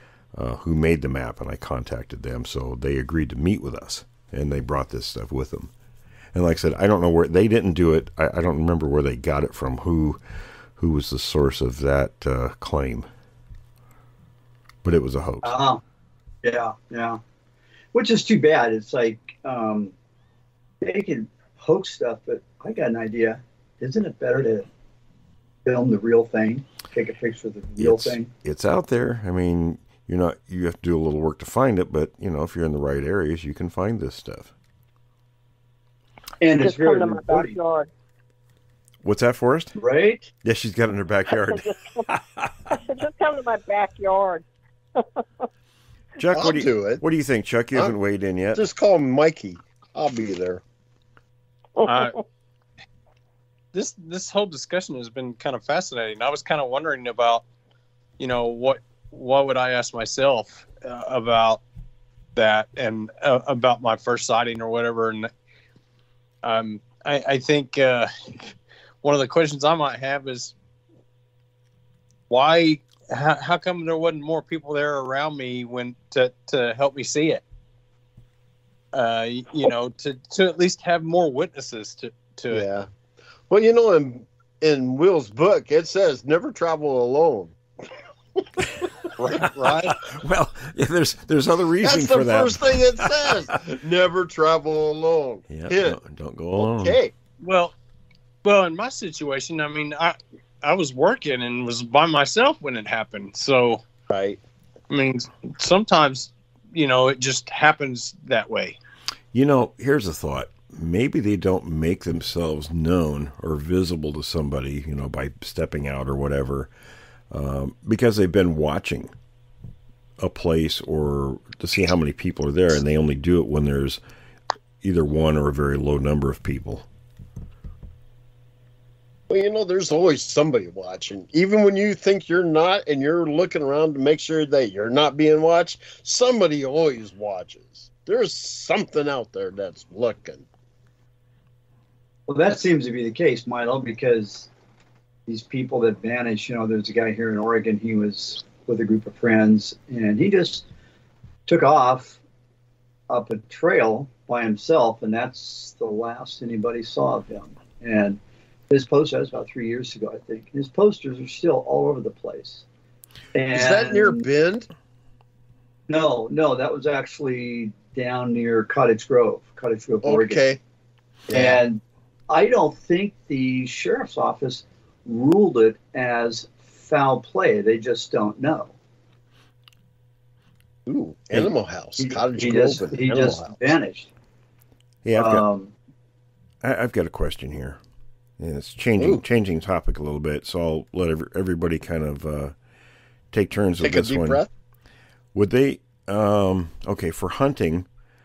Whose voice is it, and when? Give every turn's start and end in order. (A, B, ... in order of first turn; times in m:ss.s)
0:00.3-0:05.7 A
0:06.3-0:10.2 A
0:10.8-0:13.1 A
0:14.8-0:15.6 A
0:15.4-0:15.8 B
0:16.4-0:17.2 B
0:17.9-0:19.9 B
0:20.8-0:24.7 B
0:25.6-0:28.3 B
0:27.8-0:34.5 A
0:36.4-0:37.6 B
0:36.6-0:37.9 C
0:39.0-0:39.7 A
0:39.8-0:40.3 B
0:40.4-0:42.5 A
0:41.5-0:42.1 C
0:42.7-0:44.4 C
0:45.0-0:45.2 C
0:46.2-0:48.6 A
0:46.3-0:47.0 D
0:48.6-0:50.6 D
0:51.8-0:52.2 C
0:51.8-0:52.2 E
0:53.7-0:57.4 E
0:58.2-1:01.6 E
1:02.4-1:05.3 E
1:06.4-1:08.5 E
1:09.0-1:10.6 E
1:12.3-1:17.4 E
1:18.9-1:22.7 E
1:22.5-1:22.9 D
1:23.5-1:27.6 D
1:28.4-1:28.7 D
1:29.2-1:30.0 E
1:29.7-1:33.5 A
1:31.8-1:36.0 D
1:35.5-1:37.0 A
1:36.6-1:37.1 D
1:37.4-1:37.8 E
1:38.4-1:43.8 E
1:44.1-1:44.4 D
1:44.9-1:48.8 E
1:49.3-1:56.7 A
1:57.3-1:59.1 A
2:00.2-2:04.0 A
2:04.8-2:06.9 A
2:09.3-2:20.5 D
2:22.3-2:24.5 B
2:25.3-2:30.7 B
2:31.5-2:32.2 B
2:33.1-2:38.2 B
2:38.7-2:42.6 B
2:43.4-2:44.2 B
2:43.5-2:44.7 D
2:45.9-2:50.4 B
2:50.0-2:50.6 D
2:51.3-2:51.6 D
2:51.3-2:58.7 B
3:00.9-3:03.6 D
3:02.0-3:04.1 B
3:05.0-3:05.5 A
3:05.2-3:05.7 B
3:06.6-3:07.8 A
3:08.4-3:12.6 A
3:13.3-3:14.4 A
3:13.8-3:14.5 D
3:15.3-3:17.9 A